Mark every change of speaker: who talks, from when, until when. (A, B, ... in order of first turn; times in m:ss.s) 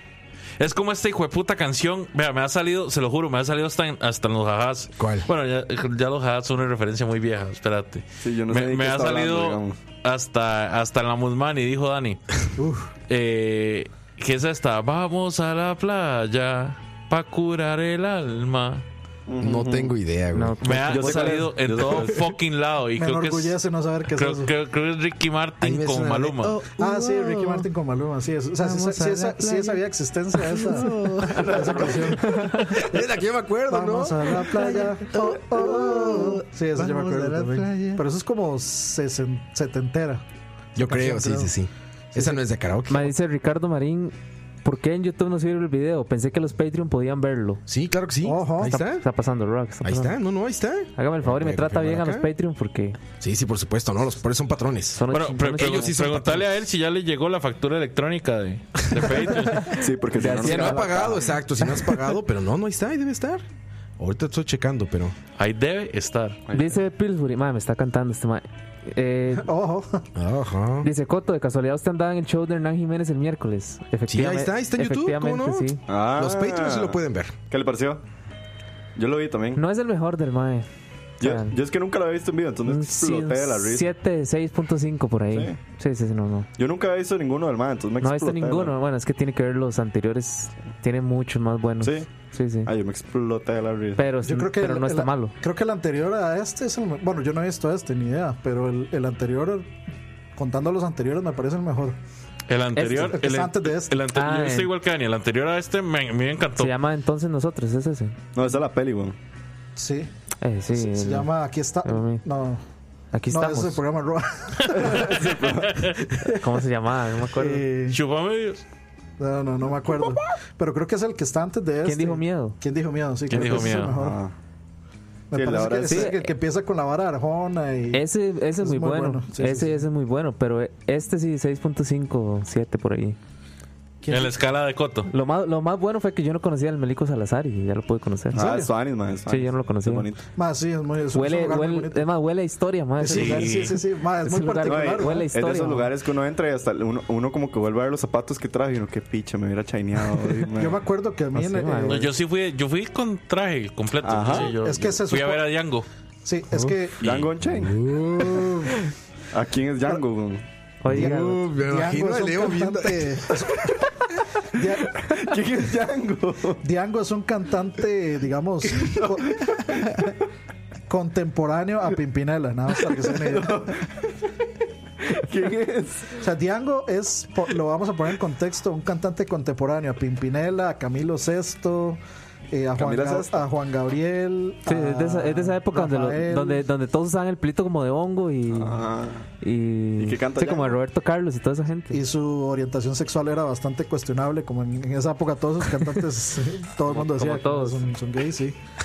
0:00.6-0:12.3 A
0:05.0-0:05.3 B
0:08.2-0:09.8 C
0:12.6-0:12.9 D
0:13.1-0:18.8 A
0:19.3-0:19.9 C
0:19.4-0:21.0 B
0:20.3-0:21.3 E
0:20.6-0:26.6 A
0:20.9-0:22.3 C
0:23.0-0:24.5 D
0:25.6-0:27.7 B
0:26.7-0:33.0 D
0:28.6-0:29.8 B
0:30.4-0:38.0 B
0:31.4-0:32.1 C
0:32.3-0:32.7 E
0:33.7-0:40.2 D
0:40.8-0:43.1 B
0:40.8-0:41.5 D
0:42.1-0:42.4 D
0:42.9-0:47.6 E
0:47.7-0:49.1 B
0:48.2-0:48.8 D
0:48.7-0:50.2 E
0:49.8-0:52.3 B
0:51.0-0:53.0 E
0:53.2-0:56.5 B
0:55.0-0:56.1 E
0:55.1-0:59.8 A
0:59.7-1:01.3 C
1:00.2-1:01.0 E
1:00.2-1:03.4 B
1:04.0-1:05.2 B
1:05.4-1:06.4 A
1:06.5-1:06.8 C
1:06.5-1:09.5 E
1:09.4-1:10.1 D
1:10.2-1:10.9 B
1:10.8-1:15.8 E
1:14.1-1:17.4 B
1:15.9-1:17.0 C
1:17.5-1:18.0 C
1:19.0-1:19.6 C
1:19.6-1:20.7 E
1:21.2-1:23.9 C
1:21.2-1:21.5 E
1:22.7-1:26.5 E
1:25.3-1:25.6 C
1:26.6-1:28.8 C
1:28.0-1:32.7 E
1:31.8-1:32.1 C
1:32.6-1:34.0 C
1:34.0-1:35.3 E
1:34.2-1:39.7 D
1:40.4-1:42.0 D
1:42.5-1:46.7 A
1:42.8-1:43.2 E
1:42.9-1:44.0 D
1:44.1-1:44.7 E
1:46.6-1:48.2 E
1:48.4-1:49.2 C
1:49.8-1:50.1 D
1:50.4-1:51.3 E
1:50.7-1:52.6 D
1:51.8-1:52.2 E
1:53.1-1:53.8 E
1:53.3-1:55.3 D
1:54.7-1:56.0 A
1:54.8-1:55.9 C
1:56.3-1:57.6 E
1:57.4-1:58.0 D
1:57.9-1:58.6 A
1:59.2-2:04.2 D
2:01.8-2:02.6 E
2:03.3-2:04.0 A
2:03.9-2:04.3 C
2:05.3-2:09.9 D
2:05.3-2:06.2 C
2:05.9-2:06.3 E
2:07.9-2:13.2 E
2:14.0-2:14.4 D
2:14.1-2:15.1 A
2:15.1-2:18.4 E
2:18.3-2:20.2 C
2:18.3-2:18.7 D
2:19.3-2:20.1 E
2:20.4-2:22.1 D
2:21.1-2:25.9 E
2:23.0-2:25.3 D
2:23.1-2:23.8 A
2:24.6-2:30.8 C
2:30.5-2:32.1 D
2:31.3-2:32.1 E
2:31.8-2:35.9 A
2:34.0-2:34.5 C
2:34.3-2:35.5 D
2:36.2-2:37.0 D
2:37.0-2:37.8 C
2:37.0-2:37.3 A
2:37.4-2:38.7 B
2:38.2-2:38.7 D
2:39.3-2:40.4 C
2:40.8-2:41.4 E
2:40.9-2:43.4 B
2:40.9-2:43.8 D
2:44.5-2:45.1 D
2:45.0-2:46.6 C
2:46.6-2:50.1 D
2:48.8-2:49.6 C
2:50.9-2:53.8 D
2:53.2-2:54.0 C
2:55.0-2:56.2 C
2:56.2-3:02.0 D
3:02.5-3:06.6 D
3:02.8-3:03.5 C
3:04.7-3:08.8 E
3:08.5-3:09.3 C
3:09.4-3:12.0 E
3:10.0-3:10.8 C
3:11.9-3:18.6 D
3:16.9-3:17.8 E